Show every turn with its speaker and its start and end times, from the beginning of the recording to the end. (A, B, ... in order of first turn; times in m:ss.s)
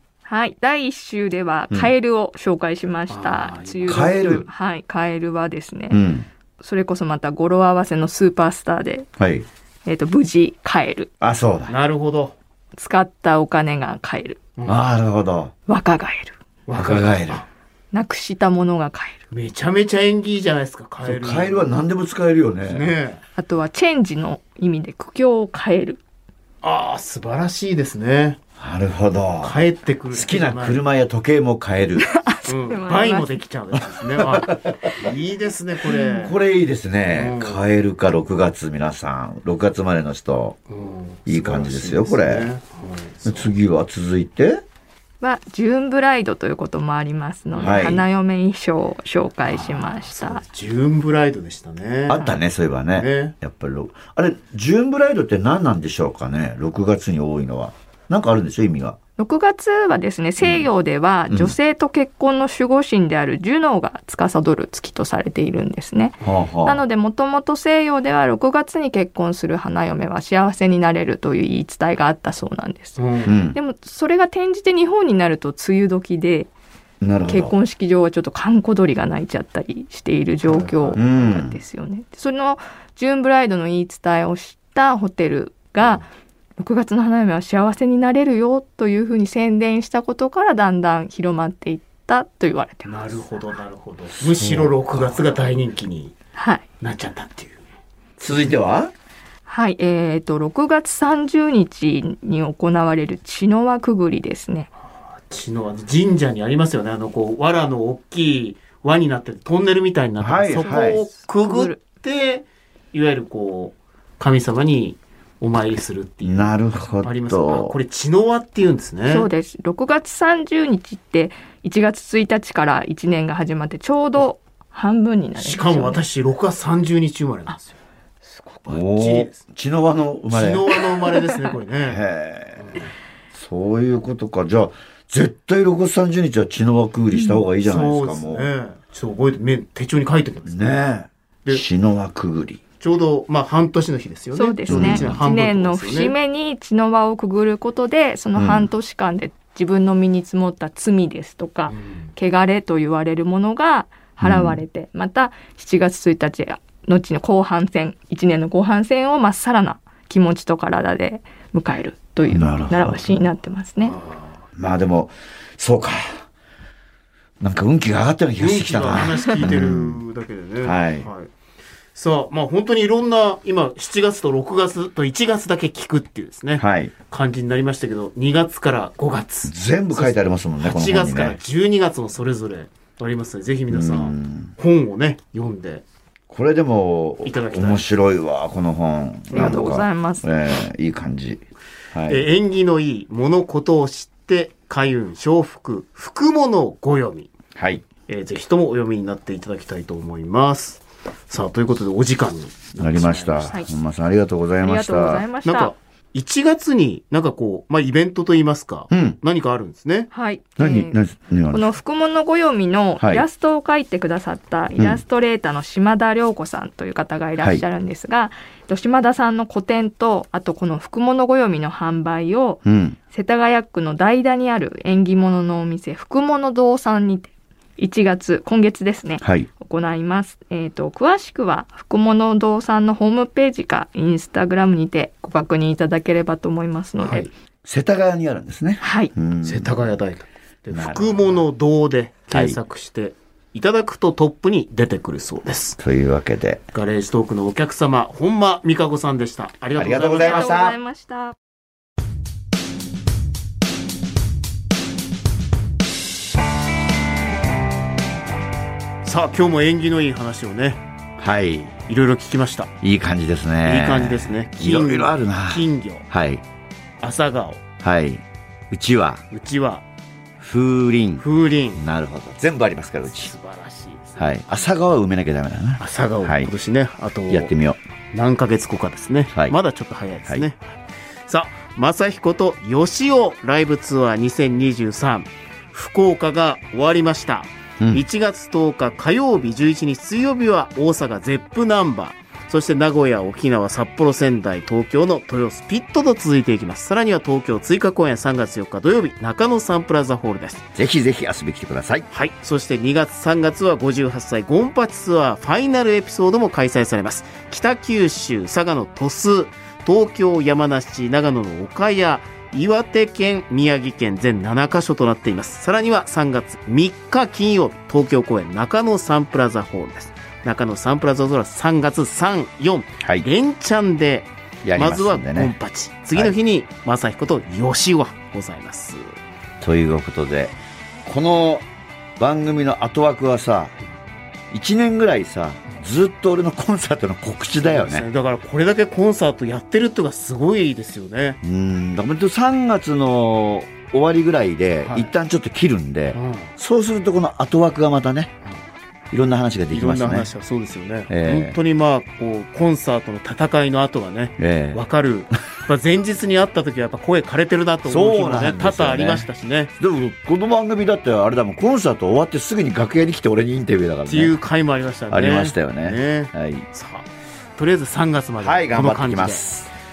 0:00.2-0:06.0 A
0:03.1-0:04.4 B
0:03.9-0:04.5 C
0:05.9-0:06.3 C
0:06.6-0:09.1 A
0:09.2-0:09.4 C
0:09.8-0:11.1 A
0:11.2-0:11.7 C
0:11.7-0:12.3 B
0:12.7-0:14.4 A
0:14.6-0:14.9 B
0:14.6-0:15.5 C
0:15.7-0:16.4 A
0:16.7-0:17.4 B
0:16.8-0:17.4 C
0:17.9-0:19.2 A
0:19.3-0:21.7 B
0:21.0-0:22.9 C
0:22.6-0:23.2 B
0:23.4-0:26.0 A
0:26.6-0:28.4 B
0:28.6-0:29.6 C
0:29.4-0:30.8 B
0:30.1-0:32.1 C
0:32.0-0:33.4 A
0:32.5-0:36.4 B
0:33.7-0:35.1 C
0:35.8-0:36.3 A
0:36.2-0:40.6 C
0:37.1-0:37.6 B
0:40.7-0:43.5 B
0:41.3-0:42.5 C
0:43.2-0:44.6 C
0:45.2-0:50.4 A
0:47.5-0:47.9 B
0:47.6-0:48.0 C
0:49.4-0:52.4 B
0:52.1-0:59.0 C
0:52.9-0:53.3 B
0:59.2-1:16.5 A
1:00.4-1:00.7 C
1:01.3-1:01.5 C
1:06.2-1:06.8 C
1:13.0-1:13.4 B
1:13.2-1:13.6 C
1:17.0-1:17.5 C
1:17.2-1:26.1 A
1:20.4-1:21.0 B
1:21.0-1:21.6 C
1:26.6-1:33.3 A
1:32.8-1:36.1 B
1:34.2-1:35.2 C
1:36.4-1:36.6 A
1:36.8-1:37.6 B
1:38.2-1:38.9 C
1:39.5-1:44.7 A
1:45.1-1:59.3 B
1:50.2-1:51.0 C
1:50.6-1:51.8 A
1:56.2-1:57.7 C
1:59.1-2:06.0 A
2:05.4-2:07.8 B
2:08.3-2:08.7 A
2:08.7-2:09.4 B
2:08.7-2:10.9 C
2:10.3-2:12.0 B
2:11.8-2:12.8 C
2:12.6-2:12.9 B
2:13.3-2:18.5 C
2:17.1-2:17.4 A
2:17.6-2:20.6 B
2:20.5-2:22.6 C
2:22.8-2:26.1 B
2:24.3-2:44.0 A
2:24.7-2:25.2 C
2:28.4-2:28.7 C
2:31.7-2:32.1 B
2:34.2-2:34.6 C
2:42.3-2:43.2 C
2:43.8-2:44.3 B
2:44.6-2:46.2 C
2:47.4-2:50.0 C
2:48.4-2:51.3 B
2:50.6-2:51.1 C
2:51.9-3:05.8 B
2:56.6-2:56.9 C
2:59.4-3:01.4 C
3:03.7-3:04.5 C
3:06.3-3:12.2 C
3:07.2-3:07.8 B
3:09.3-3:10.2 A
3:09.3-3:09.8 B
3:12.1-3:17.3 B
3:17.5-3:17.8 C
3:18.1-3:23.6 B
3:22.8-3:25.2 C
3:24.6-3:25.7 A
3:25.4-3:30.1 B
3:28.9-3:29.2 C
3:30.1-3:31.0 A
3:30.6-3:31.7 C
3:31.5-3:57.3 A
3:33.0-3:33.2 C
3:42.6-3:43.0 C
3:49.2-3:49.5 C
3:57.0-3:57.3 B
3:57.6-3:59.8 C
3:58.8-3:59.1 A
3:59.4-4:05.8 B
4:00.7-4:01.4 C
4:02.3-4:02.6 C
4:05.8-4:06.6 C
4:06.7-4:10.5 B
4:09.8-4:10.8 C
4:10.2-4:11.4 A
4:19.0-4:20.8 B
4:21.2-4:21.8 C
4:21.8-4:22.7 B
4:22.8-4:26.4 C
4:23.6-4:26.0 B
4:27.0-4:27.6 B
4:27.8-4:29.2 C
4:29.3-4:29.8 B
4:30.4-4:33.3 C
4:31.2-4:31.8 B
4:33.1-4:34.4 B
4:34.2-4:36.5 C
4:35.8-4:37.5 B
4:37.3-4:37.8 C
4:38.1-4:40.6 B
4:39.3-4:39.6 C
4:41.3-5:00.6 B
4:47.8-4:48.0 C
5:00.7-5:02.1 C
5:02.1-5:29.1 B
5:23.0-5:23.3 C
5:24.6-5:25.5 C
5:29.6-5:31.6 C
5:32.2-5:33.7 C
5:34.5-5:38.0 C
5:37.6-5:41.4 B
5:41.4-5:48.3 C
5:44.8-5:45.1 B
5:46.1-5:46.5 B
5:49.1-5:50.3 C
5:49.7-5:59.7 B
5:51.1-5:51.6 C
5:54.4-5:54.8 C
5:57.8-5:59.3 C
5:59.8-6:04.3 C
6:04.1-6:09.4 B
6:05.1-6:06.6 C
6:08.4-6:09.7 C